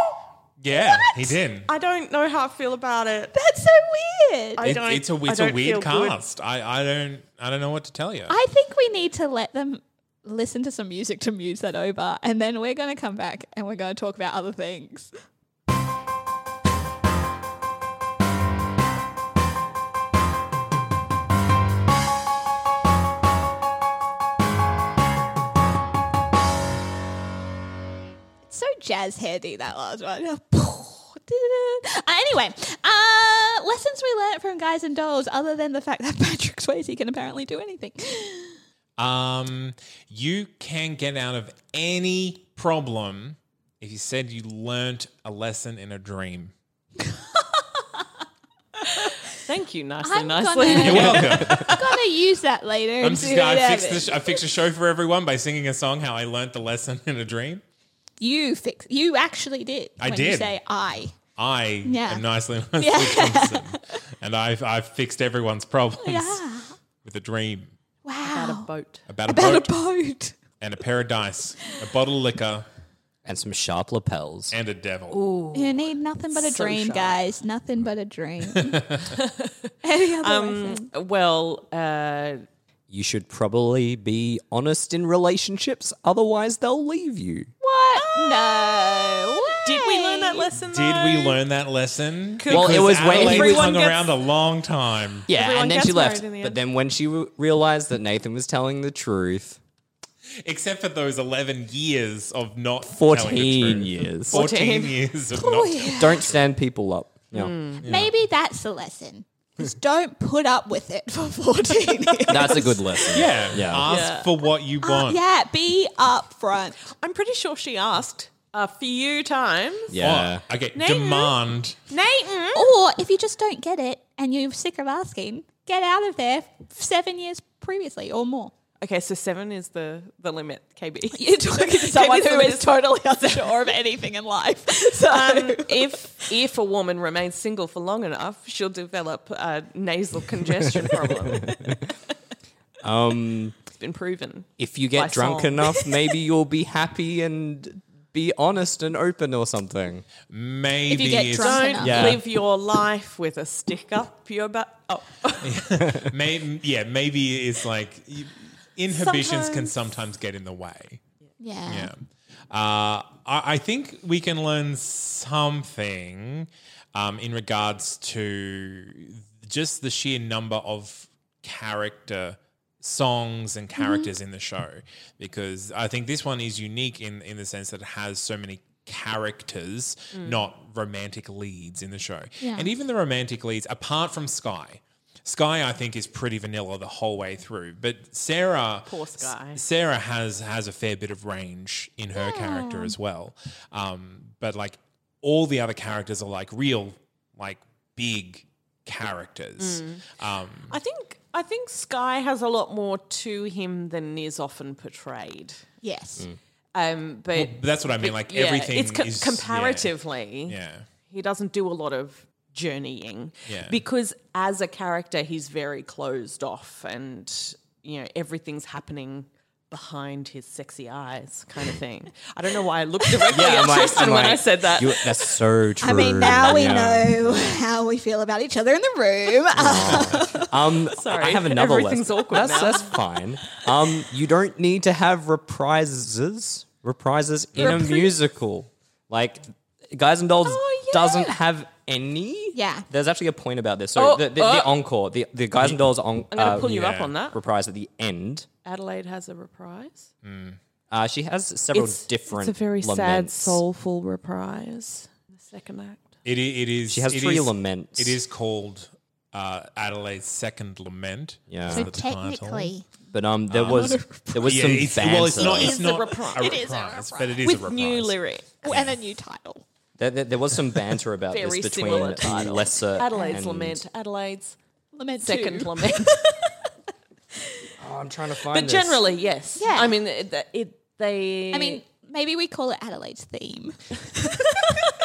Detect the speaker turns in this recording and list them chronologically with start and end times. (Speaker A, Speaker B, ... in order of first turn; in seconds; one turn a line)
Speaker A: 0.6-1.7
Speaker B: 0.7-1.3
Speaker C: 1.7-3.3
Speaker B: 3.3-4.7
Speaker C: 4.6-6.2
Speaker A: 4.6-8.3
Speaker B: 8.3-15.1
Speaker B: 28.5-38.6
Speaker A: 39.0-46.5
Speaker B: 47.1-47.6
Speaker B: 48.9-49.1
Speaker C: 49.4-51.9
Speaker B: 50.0-54.4
Speaker A: 50.7-51.8
Speaker A: 53.0-57.6
Speaker B: 58.2-61.1
Speaker A: 60.0-60.6
Speaker A: 61.3-66.4
Speaker B: 61.8-62.2
Speaker B: 62.8-63.9
Speaker B: 66.0-66.7
Speaker A: 67.0-67.7
Speaker B: 68.0-68.7
Speaker C: 68.2-69.0
Speaker A: 69.1-69.7
Speaker B: 69.2-70.3
Speaker A: 70.6-72.7
Speaker D: 73.2-74.5
Speaker A: 74.5-75.2
Speaker C: 75.1-75.8
Speaker B: 75.5-78.9
Speaker C: 76.3-77.2
Speaker A: 78.5-79.1
Speaker C: 79.1-79.7
Speaker B: 79.8-80.9
Speaker C: 80.2-82.4
Speaker D: 82.9-87.5
Speaker B: 87.6-90.5
Speaker C: 88.0-91.4
Speaker A: 90.6-95.3
Speaker C: 92.4-94.2
Speaker D: 92.5-93.8
Speaker D: 95.3-99.6
Speaker C: 95.3-96.6
Speaker A: 100.4-106.2
Speaker D: 102.9-104.5
Speaker C: 104.3-105.0
Speaker B: 105.3-106.3
Speaker D: 106.0-107.5
Speaker C: 107.3-107.8
Speaker A: 107.8-108.1
Speaker B: 107.8-113.2
Speaker D: 112.3-113.9
Speaker A: 113.1-115.2
Speaker C: 113.8-114.3
Speaker B: 114.8-116.9
Speaker C: 116.9-120.0
Speaker D: 119.9-120.4
Speaker A: 120.0-121.8
Speaker C: 120.7-121.3
Speaker C: 121.9-122.7
Speaker B: 122.5-128.5
Speaker C: 128.8-133.4
Speaker B: 131.1-136.3
Speaker C: 135.1-141.8
Speaker D: 140.9-141.8
Speaker D: 142.8-143.5
Speaker C: 143.7-145.9
Speaker D: 144.6-150.1
Speaker A: 150.3-151.9
Speaker B: 150.9-152.1
Speaker C: 151.3-155.6
Speaker D: 151.8-152.2
Speaker A: 155.4-161.0
Speaker C: 158.9-159.8
Speaker B: 161.4-161.9
Speaker A: 161.7-200.8
Speaker B: 173.8-174.1
Speaker C: 180.1-180.5
Speaker B: 182.4-182.7
Speaker C: 188.9-189.6
Speaker B: 192.1-192.9
Speaker C: 199.6-200.1
Speaker C: 200.7-205.6
Speaker B: 205.8-206.3
Speaker C: 206.7-210.6
Speaker A: 207.3-209.9
Speaker A: 210.5-210.9
Speaker C: 211.1-225.4
Speaker A: 213.5-213.8
Speaker D: 223.3-227.6
Speaker B: 225.8-230.5
Speaker D: 229.5-248.5
Speaker C: 230.8-233.0
Speaker B: 237.6-238.1
Speaker C: 240.4-241.4
Speaker B: 242.5-242.8
Speaker C: 243.9-244.8
Speaker C: 246.3-247.4
Speaker A: 246.7-247.1
Speaker C: 248.6-250.1
Speaker A: 250.2-250.6
Speaker D: 250.9-253.6
Speaker C: 251.7-256.2
Speaker A: 256.2-262.7
Speaker D: 256.9-258.2
Speaker D: 261.5-261.9
Speaker B: 261.7-262.8
Speaker D: 263.1-265.8
Speaker A: 263.5-268.9
Speaker B: 263.6-264.6
Speaker C: 265.4-266.6
Speaker B: 265.8-267.4
Speaker C: 267.4-268.6
Speaker B: 268.6-269.6
Speaker D: 270.0-273.8
Speaker C: 271.3-274.6
Speaker B: 273.1-273.4
Speaker B: 274.9-276.5
Speaker C: 275.2-276.2
Speaker D: 277.8-279.1
Speaker C: 278.5-281.8
Speaker B: 279.6-279.9
Speaker B: 281.5-284.7